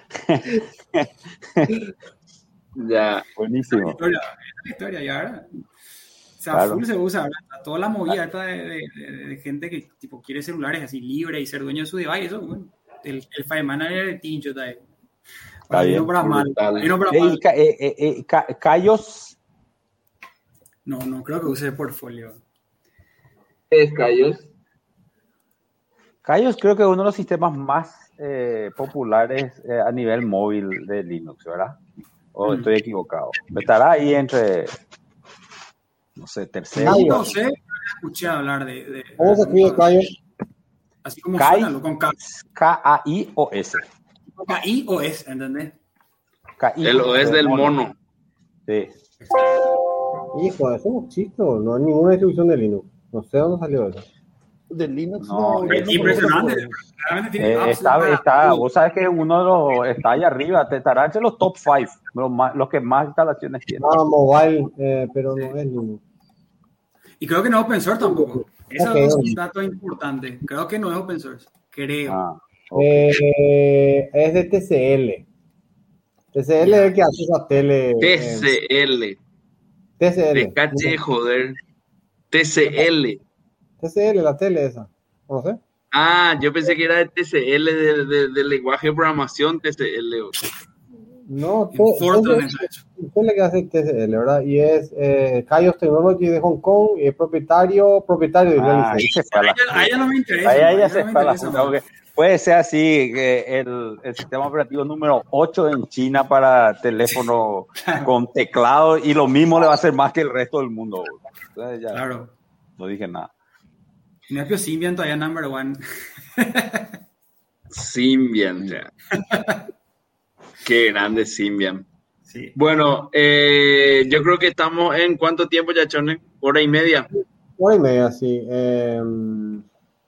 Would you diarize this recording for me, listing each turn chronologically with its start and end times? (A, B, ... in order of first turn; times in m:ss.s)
0:00.2-0:01.8 A
0:02.8-0:03.2 B
0:03.4-0:04.0 A
0:03.7-0:05.5 C
0:06.4-0:14.9 C
0:06.5-0:06.8 A
0:15.7-0:17.4 C
0:15.7-0:19.4 A
0:16.2-0:16.7 B
0:20.8-0:22.4 C
0:23.7-0:24.5 B
0:26.2-0:31.8 A
0:32.3-0:34.7 A
0:32.4-0:32.7 C
0:36.2-0:37.3 A
0:36.8-0:39.9 C
0:36.8-0:37.3 D
0:39.2-0:40.1 D
0:41.0-0:42.2 C
0:41.4-0:41.7 A
0:42.4-0:43.8 A
0:44.4-0:45.7 C
0:46.6-0:47.8 A
0:46.8-0:47.9 B
0:48.7-0:48.9 A
0:50.3-0:54.0 D
0:54.7-0:56.7 E
0:55.2-0:56.3 A
0:55.7-0:58.6 C
0:57.4-1:03.9 A
1:03.8-1:06.0 D
1:07.2-1:12.2 C
1:08.0-1:09.4 D
1:12.1-1:13.0 A
1:12.7-1:15.2 D
1:16.3-1:18.6 D
1:16.6-1:16.9 C
1:18.0-1:19.2 B
1:20.0-1:21.0 D
1:20.3-1:21.6 B
1:22.3-1:23.2 B
1:23.8-1:25.6 D
1:25.9-1:30.3 B
1:31.2-1:39.1 D
1:31.7-1:32.8 C
1:38.6-1:52.0 A
1:39.3-1:41.8 C
1:51.9-1:52.3 C
1:52.8-1:53.3 A
1:54.3-1:55.8 C
1:56.4-1:56.9 C
1:57.7-1:58.9 B
1:59.1-1:59.6 C
2:00.6-2:01.8 B
2:02.3-2:02.5 C
2:02.5-2:07.1 B
2:07.6-2:09.6 D